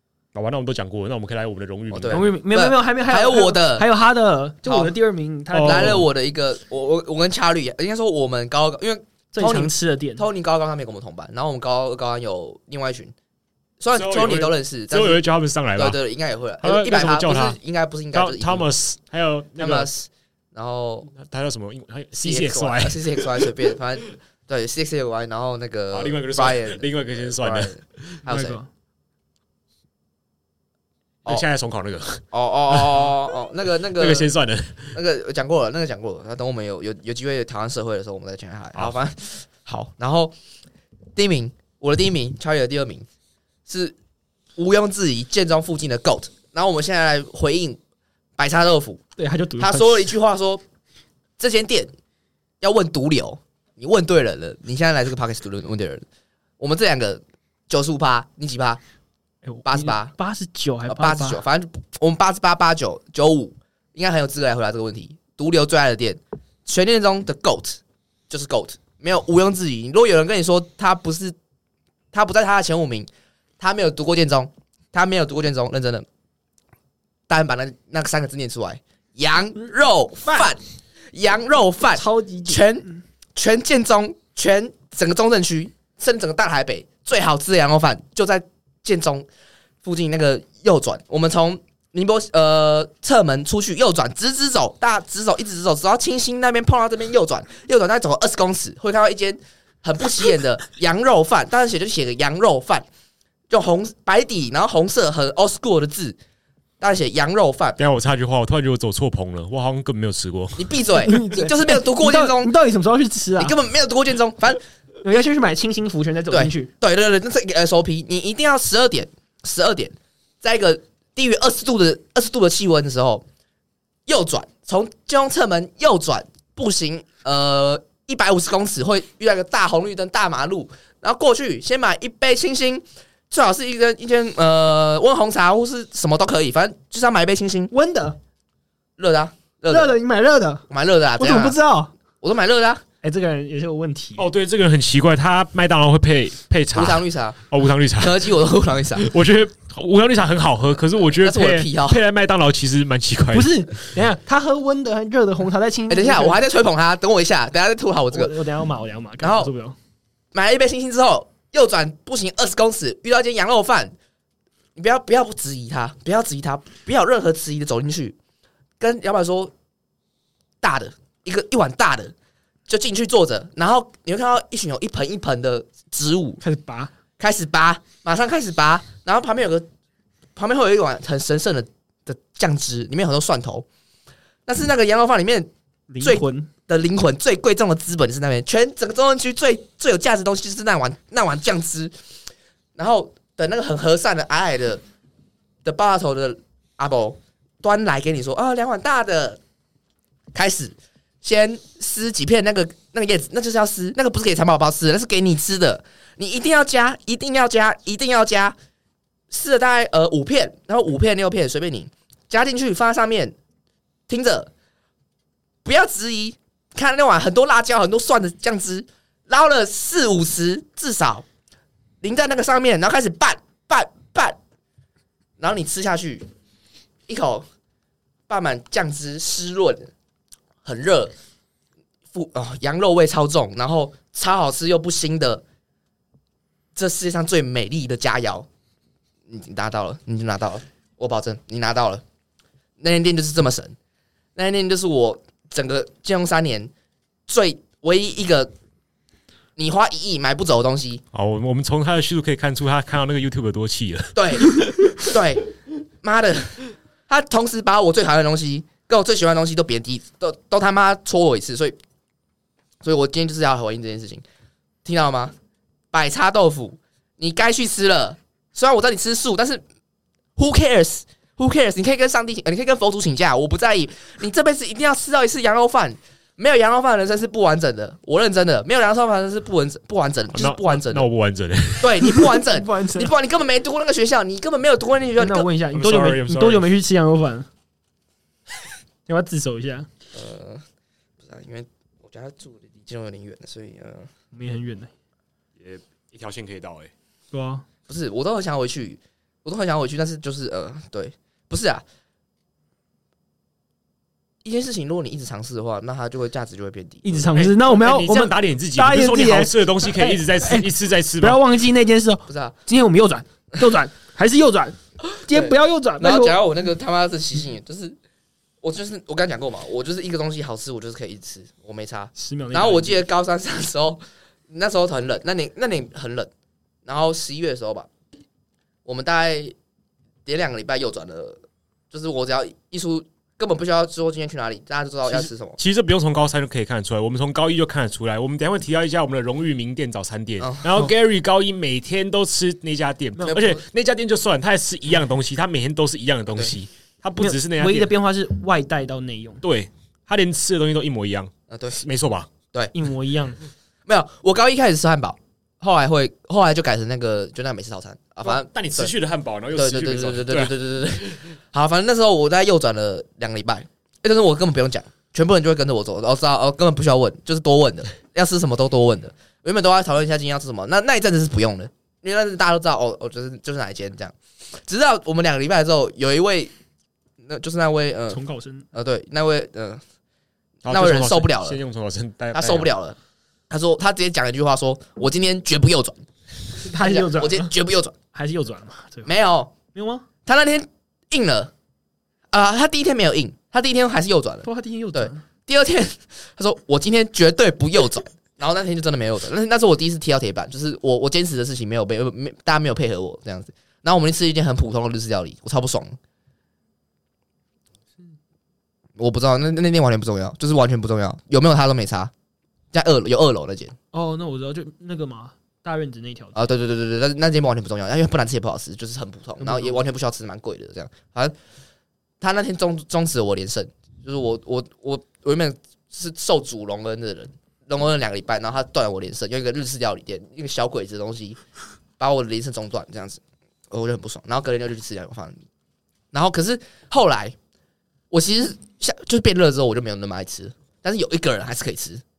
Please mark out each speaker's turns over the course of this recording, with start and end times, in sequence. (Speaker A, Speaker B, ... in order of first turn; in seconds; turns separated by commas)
Speaker A: 0.3-2.3, Speaker B: 1.9-3.9, Speaker C: 2.1-6.1, Speaker B: 4.6-4.9, Speaker A: 5.5-6.1, Speaker B: 5.6-13.1, Speaker C: 9.3-10.2, Speaker B: 13.8-15.2, Speaker A: 13.9-16.0, Speaker B: 15.8-18.7, Speaker A: 16.6-17.6, Speaker A: 18.1-19.9, Speaker B: 19.6-21.1, Speaker A: 21.1-23.8, Speaker B: 22.2-28.6, Speaker A: 25.9-28.2, Speaker C: 28.3-28.7, Speaker A: 31.3-33.1, Speaker B: 32.3-34.3, Speaker A: 33.9-35.0, Speaker B: 34.9-40.4, Speaker B: 41.2-43.1, Speaker B: 43.7-44.0, Speaker B: 44.6-47.8, Speaker B: 48.4-49.0, Speaker C: 49.2-50.2, Speaker B: 49.6-50.6, Speaker B: 51.4-51.9, Speaker B: 52.6-56.0, Speaker B: 56.6-58.8, Speaker C: 59.4-61.4, Speaker B: 59.6-60.1, Speaker B: 60.9-71.4, Speaker B: 72.1-73.1, Speaker B: 73.6-76.1, Speaker B: 77.3-80.6, Speaker B: 81.1-89.3, Speaker C: 82.0-83.0, Speaker B: 89.8-102.9, Speaker B: 103.5-106.2, Speaker B: 106.8-107.8, Speaker A: 107.8-110.8, Speaker B: 110.6-112.5, Speaker C: 111.0-113.6, Speaker B: 113.4-114.6, Speaker C: 115.0-116.7, Speaker B: 116.3-123.2, Speaker B: 124.1-137.7, Speaker C: 137.7-138.2, Speaker B: 139.0-139.9, Speaker C: 139.7-140.7, Speaker B: 140.7-141.6, Speaker C: 141.2-141.9, Speaker B: 142.2-142.8, Speaker C: 143.0-144.3, Speaker A: 144.2-148.3, Speaker B: 146.7-147.4, Speaker B: 148.0-149.1, Speaker A: 149.0-153.6, Speaker B: 151.2-152.0, Speaker C: 153.3-156.4, Speaker B: 155.9-158.4, Speaker C: 158.1-159.8, Speaker B: 159.2-159.5, Speaker B: 160.3-163.9, Speaker B: 164.8-168.2, Speaker B: 168.8-169.5, Speaker B: 170.6-172.1, Speaker B: 172.7-176.4, Speaker C: 176.4-176.9, Speaker B: 177.2-179.7, Speaker B: 180.4-183.7, Speaker B: 184.5-185.5, Speaker C: 185.9-186.5, Speaker B: 186.0-191.9, Speaker B: 192.8-194.8, Speaker B: 195.6-199.4, Speaker B: 200.3-208.6, Speaker B: 209.3-213.3, Speaker B: 214.1-214.5, Speaker B: 215.6-221.2, Speaker B: 222.0-224.4, Speaker B: 225.4-226.3, Speaker B: 227.1-227.5, Speaker B: 228.3-229.9, Speaker B: 230.6-231.1, Speaker B: 232.1-235.4, Speaker B: 236.8-238.5, Speaker B: 239.3-242.0, Speaker B: 242.8-243.8, Speaker B: 244.3-246.7, Speaker B: 247.3-248.5, Speaker B: 249.6-251.0, Speaker A: 251.1-254.6, Speaker B: 254.2-261.8, Speaker B: 262.8-264.2, Speaker B: 264.9-265.3, Speaker B: 265.9-269.6, Speaker B: 270.4-281.1, Speaker A: 280.3-282.1, Speaker B: 281.8-285.5, Speaker C: 282.0-283.1, Speaker C: 285.2-287.5, Speaker A: 285.7-286.7, Speaker C: 289.1-289.9, Speaker B: 290.1-290.6, Speaker B: 291.2-294.1, Speaker C: 294.3-294.9, Speaker A: 295.6-296.9, Speaker C: 297.3-297.6, Speaker B: 297.9-301.8, Speaker B: 304.4-307.3, Speaker C: 307.0-316.4, Speaker A: 307.3-311.4, Speaker B: 312.3-312.6, Speaker B: 315.1-318.0, Speaker B: 318.6-326.3, Speaker C: 322.2-323.1, Speaker B: 326.9-327.9, Speaker B: 328.9-329.6, Speaker B: 330.3-331.4, Speaker B: 331.9-335.6, Speaker A: 335.1-347.9, Speaker B: 340.4-340.9, Speaker B: 343.2-343.6, Speaker C: 347.2-349.4, Speaker A: 349.4-352.3, Speaker B: 351.5-351.8, Speaker C: 352.7-353.4, Speaker B: 353.9-358.9, Speaker A: 358.2-361.3, Speaker B: 359.5-376.5, Speaker B: 377.2-378.2, Speaker C: 378.1-378.7, Speaker B: 378.7-379.8, Speaker A: 380.6-382.7, Speaker B: 380.7-381.6, Speaker B: 382.3-383.0, Speaker B: 383.5-386.0, Speaker B: 386.6-387.9, Speaker C: 386.6-387.5, Speaker C: 388.1-389.1, Speaker B: 389.1-389.5, Speaker C: 389.7-390.1, Speaker B: 390.3-391.5, Speaker B: 392.3-406.0, Speaker C: 394.4-395.2, Speaker B: 409.0-412.1, Speaker B: 412.7-413.8, Speaker C: 413.9-416.5, Speaker B: 416.4-421.3, Speaker C: 419.4-419.8, Speaker B: 422.2-431.4, Speaker B: 432.0-435.4, Speaker B: 436.1-437.4, Speaker B: 438.1-442.0